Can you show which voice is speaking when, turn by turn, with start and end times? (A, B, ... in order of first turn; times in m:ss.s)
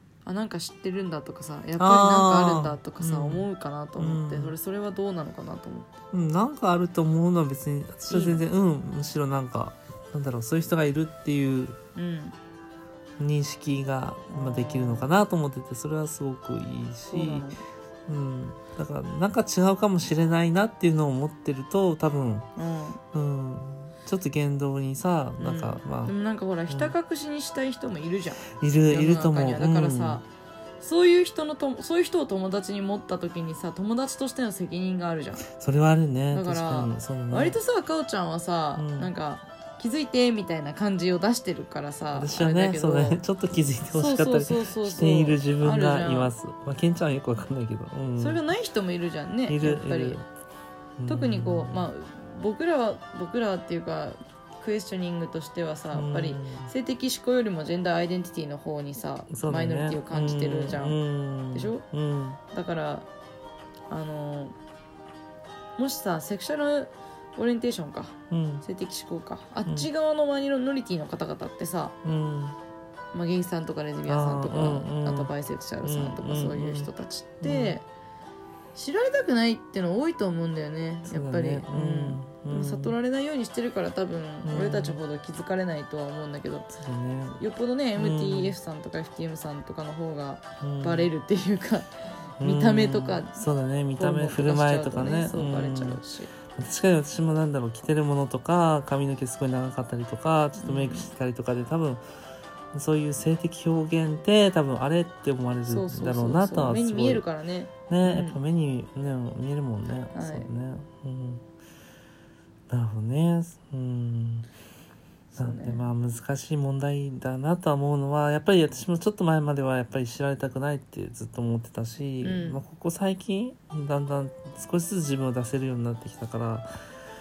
0:00.2-0:06.0 A
0:01.8-0:04.5 B
0:06.1-0:11.8 B
0:08.1-0:08.4 A
0:12.0-0:12.4 A
0:13.2-0:17.5 B
0:14.3-0:15.1 A
0:17.1-0:17.6 A
0:18.1-0:22.5 B
0:22.6-0:23.0 A
0:23.1-0:26.1 B
0:25.4-0:30.3 A
0:28.6-0:30.2 B
0:30.8-0:35.5 A
0:35.5-0:37.6 B
0:36.3-0:43.2 A
0:38.8-0:39.1 B
0:42.1-0:48.4 B
0:43.9-0:46.3 A
0:48.2-0:50.2 A
0:49.5-0:50.3 B
0:51.0-0:51.9 B
0:51.1-1:01.8 A
0:55.9-0:56.7 B
0:59.3-1:02.4 B
1:02.5-1:03.1 A
1:03.9-1:04.6 A
1:05.8-1:12.0 A
1:08.3-1:08.6 B
1:12.0-1:12.6 B
1:13.1-1:17.8 A
1:14.1-1:15.3 B
1:15.8-1:16.9 B
1:17.4-1:17.8 B
1:18.8-1:26.7 A
1:21.1-1:23.0 B
1:24.4-1:25.0 B
1:26.7-1:27.4 B
1:27.4-1:33.4 A
1:28.0-1:28.6 B
1:30.6-1:31.1 B
1:32.4-1:36.0 B
1:34.0-1:36.3 A
1:36.5-1:42.0 B
1:40.6-1:41.1 A
1:42.7-1:47.2 B
1:45.7-1:48.4 A
1:47.9-1:51.4 B
1:50.1-1:50.5 A
1:52.7-1:54.5 B
1:55.3-1:55.9 A
1:55.4-2:06.7 B
2:02.2-2:02.6 A